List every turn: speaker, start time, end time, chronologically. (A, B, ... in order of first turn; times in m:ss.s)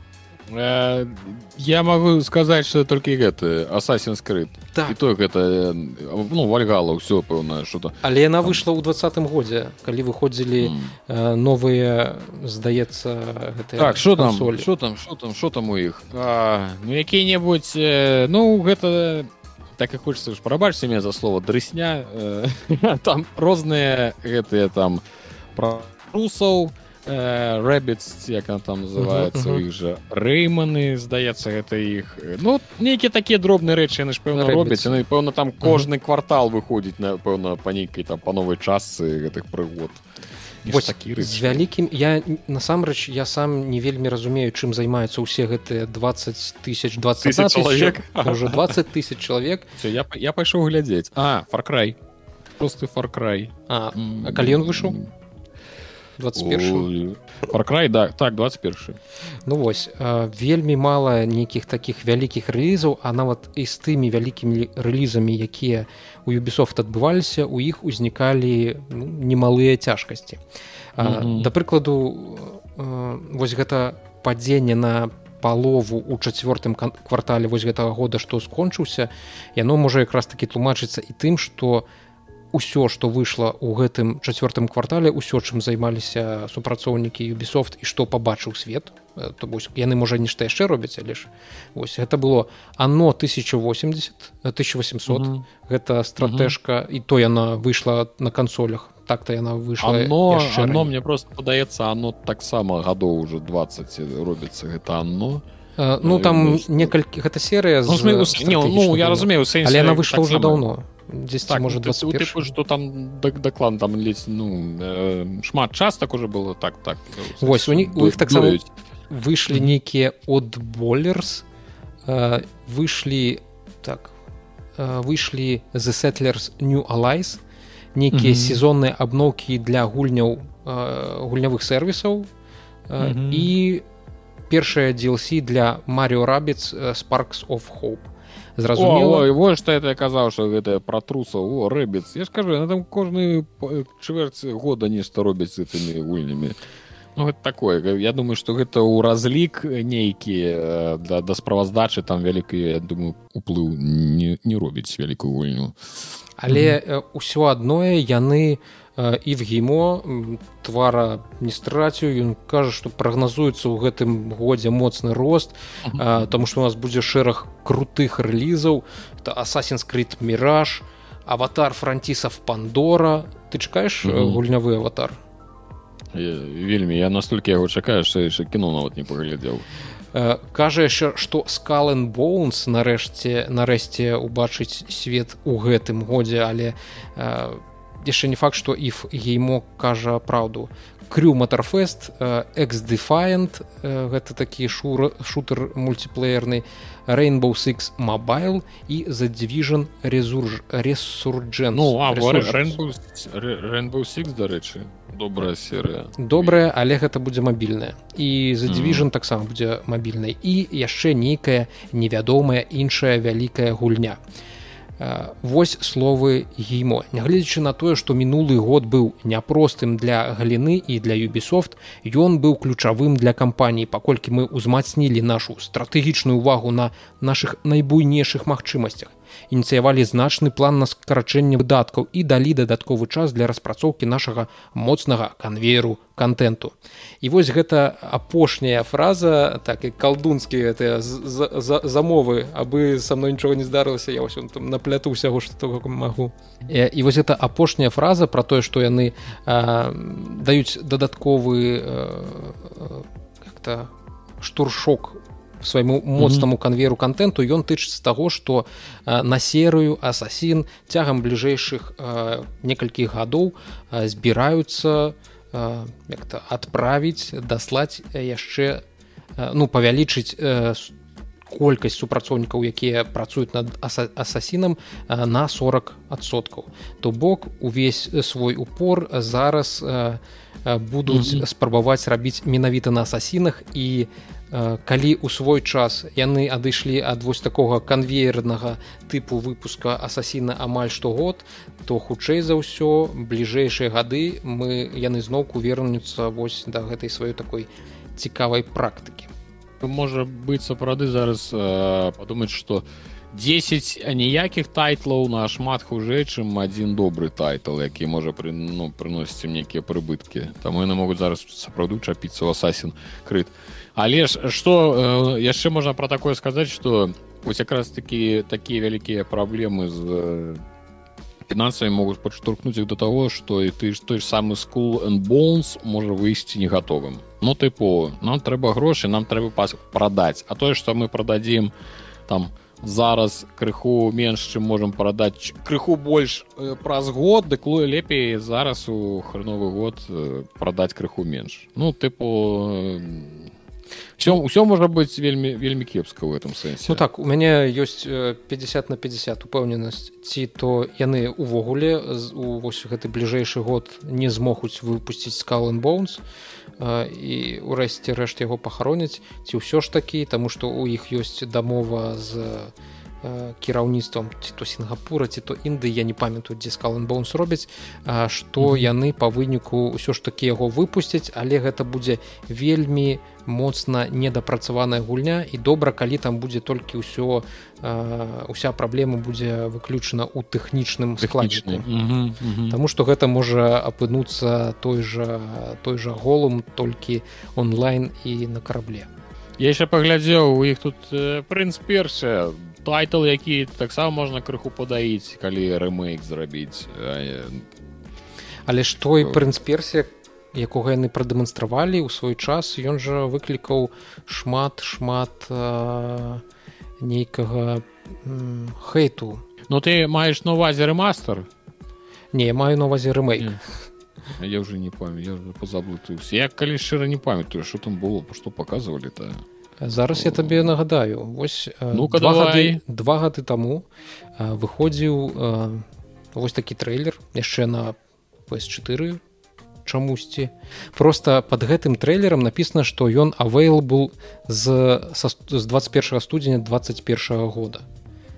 0:00.5-0:08.6 A
0:08.0-0:14.7 B
0:10.6-0:11.0 A
0:13.8-0:25.0 A
0:25.6-0:40.0 A
0:29.0-0:29.6 B
0:34.3-0:35.0 B
0:40.6-0:41.6 A
0:40.7-0:49.7 B
0:47.2-0:48.7 A
0:49.8-0:52.0 A
0:52.6-0:55.1 A
0:53.7-0:55.0 B
0:56.2-0:56.9 B
0:56.4-0:59.0 A
0:59.5-1:10.4 B
1:11.0-1:21.9 B
1:11.0-1:11.5 A
1:22.5-1:40.9 B
1:35.1-1:35.4 A
1:36.2-1:36.5 A
1:39.8-1:45.4 A
1:45.8-1:52.4 B
1:46.0-1:46.9 A
1:47.9-1:50.6 A
1:51.5-1:58.7 A
1:57.4-2:01.4 B
2:02.1-2:04.1 B
2:04.8-2:07.4 B
2:08.0-2:12.3 B
2:08.1-2:08.6 A
2:12.9-2:13.8 B
2:13.0-2:13.5 A
2:14.5-2:19.3 B
2:18.7-2:26.6 A
2:27.2-2:35.8 A
2:36.4-2:55.2 B
2:36.5-2:36.8 A
2:45.8-2:46.2 A
2:54.0-2:54.4 A
2:56.1-2:59.7 A
3:00.1-3:22.8 B
3:21.7-3:26.5 A
3:26.2-3:34.2 B
3:28.7-3:29.1 A
3:35.0-4:28.8 B
4:16.2-4:16.5 A
4:29.4-4:30.9 B
4:31.5-4:59.3 B
4:41.1-4:41.4 A
4:59.8-5:20.6 A
5:21.5-5:31.7 A
5:32.3-5:43.5 A
5:44.2-5:47.0 A
5:46.9-5:56.2 B
5:56.8-6:21.9 B
6:08.6-6:08.9 A
6:21.2-6:22.8 A
6:22.7-6:29.1 B
6:29.6-6:37.7 A
6:38.7-6:46.4 B
6:39.2-6:39.5 A
6:47.0-6:49.4 B
6:49.7-6:51.5 A
6:52.3-6:53.6 B
6:54.4-6:59.4 A
6:59.8-7:03.9 B
7:00.1-7:00.7 A
7:01.9-7:02.8 A
7:04.4-7:08.0 B
7:08.5-7:09.2 B
7:09.8-7:17.8 B